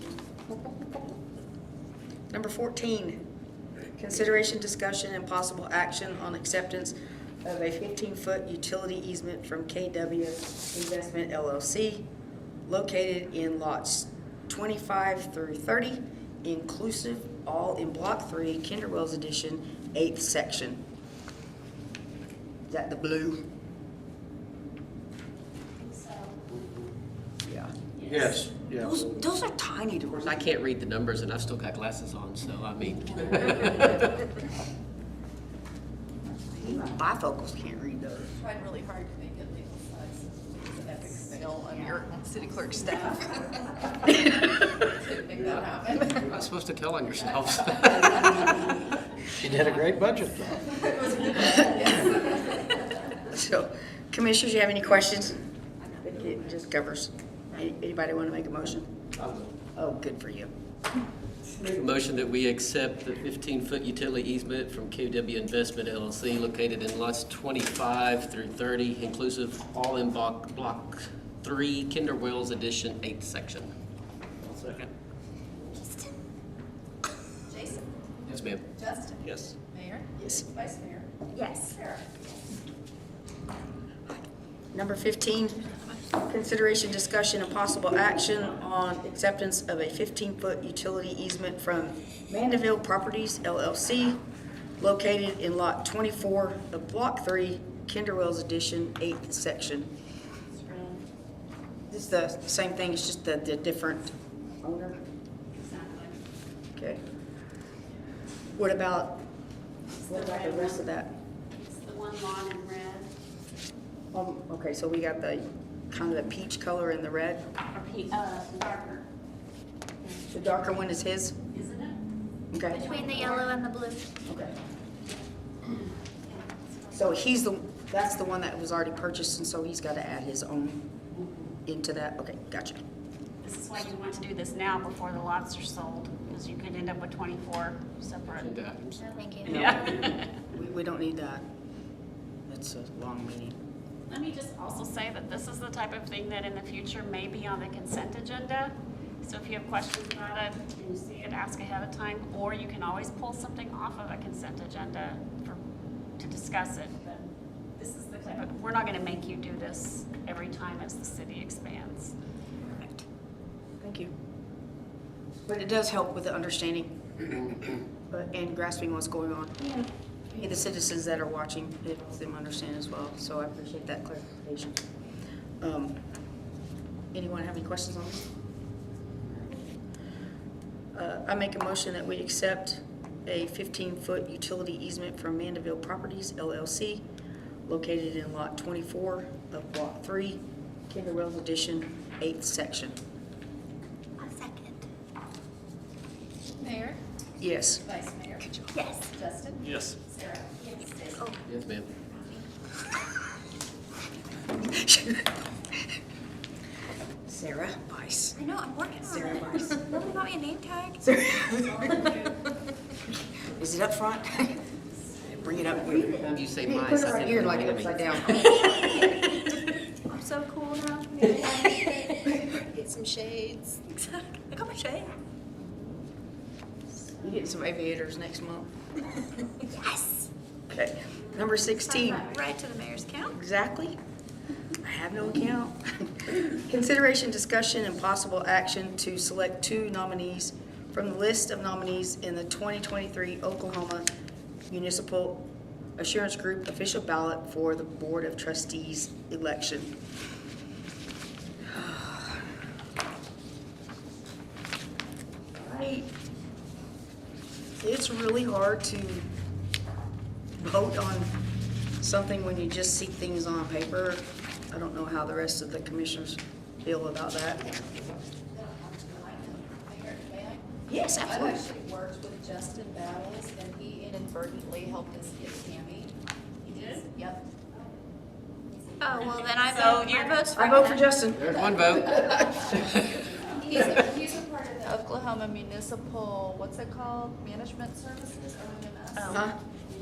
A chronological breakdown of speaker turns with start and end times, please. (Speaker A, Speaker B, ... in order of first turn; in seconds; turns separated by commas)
Speaker A: 0.5-0.9, Speaker A: 2.3-3.3, Speaker A: 3.9-12.1, Speaker A: 12.7-20.8, Speaker A: 22.7-23.5, Speaker B: 25.8-26.4, Speaker A: 27.4-27.7, Speaker B: 27.9-28.4, Speaker C: 28.1-29.0, Speaker A: 28.8-30.5, Speaker D: 30.2-34.2, Speaker A: 36.6-38.3, Speaker E: 38.3-46.4, Speaker D: 46.0-48.8, Speaker E: 48.3-48.6, Speaker C: 49.4-50.7, Speaker E: 49.6-49.9, Speaker E: 50.6-52.9, Speaker A: 53.2-58.9, Speaker D: 59.2-59.5, Speaker A: 59.7-60.5, Speaker D: 61.6-73.7, Speaker C: 74.5-74.9, Speaker F: 75.8-76.1, Speaker E: 77.5-78.0, Speaker D: 78.2-78.6, Speaker E: 78.8-81.1, Speaker F: 81.3-81.8, Speaker E: 81.7-82.2, Speaker A: 84.7-94.2, Speaker A: 94.8-99.9, Speaker B: 100.6-101.0, Speaker A: 101.9-105.0, Speaker B: 105.5-106.2, Speaker A: 106.8-107.0, Speaker A: 108.5-109.2, Speaker B: 110.0-110.8, Speaker A: 110.0-111.1, Speaker B: 111.5-113.1, Speaker A: 114.1-117.4, Speaker B: 117.7-119.0, Speaker A: 120.3-121.3, Speaker B: 121.5-122.0, Speaker A: 122.5-122.8, Speaker F: 122.7-124.1, Speaker B: 122.7-123.5, Speaker A: 124.3-124.5, Speaker B: 126.3-127.0, Speaker A: 126.9-130.8, Speaker A: 131.6-132.8, Speaker B: 133.4-138.6, Speaker D: 138.3-139.0, Speaker F: 139.0-139.6, Speaker A: 139.4-141.4, Speaker B: 139.4-140.3, Speaker A: 142.5-143.6, Speaker B: 144.1-155.6, Speaker B: 156.2-162.1, Speaker A: 163.8-164.1, Speaker A: 165.5-169.7, Speaker A: 170.3-174.8, Speaker A: 175.6-176.0, Speaker A: 177.1-178.3, Speaker A: 180.9-187.0, Speaker A: 187.7-193.0, Speaker F: 194.2-194.8, Speaker E: 196.5-197.0, Speaker A: 197.4-197.9, Speaker E: 197.8-198.5, Speaker A: 198.4-198.7, Speaker F: 198.7-199.1, Speaker E: 199.1-201.3, Speaker F: 200.6-201.4, Speaker D: 201.4-201.9, Speaker F: 202.1-202.5, Speaker A: 204.5-205.3, Speaker A: 207.3-208.4, Speaker F: 208.3-211.0, Speaker A: 209.0-209.8, Speaker A: 211.0-212.3, Speaker A: 213.5-214.6, Speaker A: 215.2-219.2, Speaker F: 215.8-216.2, Speaker D: 216.1-218.3, Speaker F: 218.5-219.2, Speaker F: 220.1-225.1, Speaker A: 227.2-228.7, Speaker F: 229.6-230.3, Speaker A: 230.7-232.3, Speaker F: 231.6-233.3, Speaker A: 233.3-234.0, Speaker A: 234.8-244.1, Speaker A: 244.7-249.9, Speaker A: 251.7-252.5, Speaker A: 255.5-256.1, Speaker A: 257.8-259.3, Speaker A: 260.6-261.3, Speaker A: 262.0-267.8, Speaker E: 268.5-277.5, Speaker A: 270.9-271.6, Speaker B: 276.6-277.0, Speaker E: 278.7-279.6, Speaker F: 279.0-281.2, Speaker B: 279.1-280.5, Speaker A: 280.5-281.6, Speaker D: 281.3-283.2, Speaker E: 283.4-289.4, Speaker B: 289.1-289.5, Speaker A: 289.3-289.6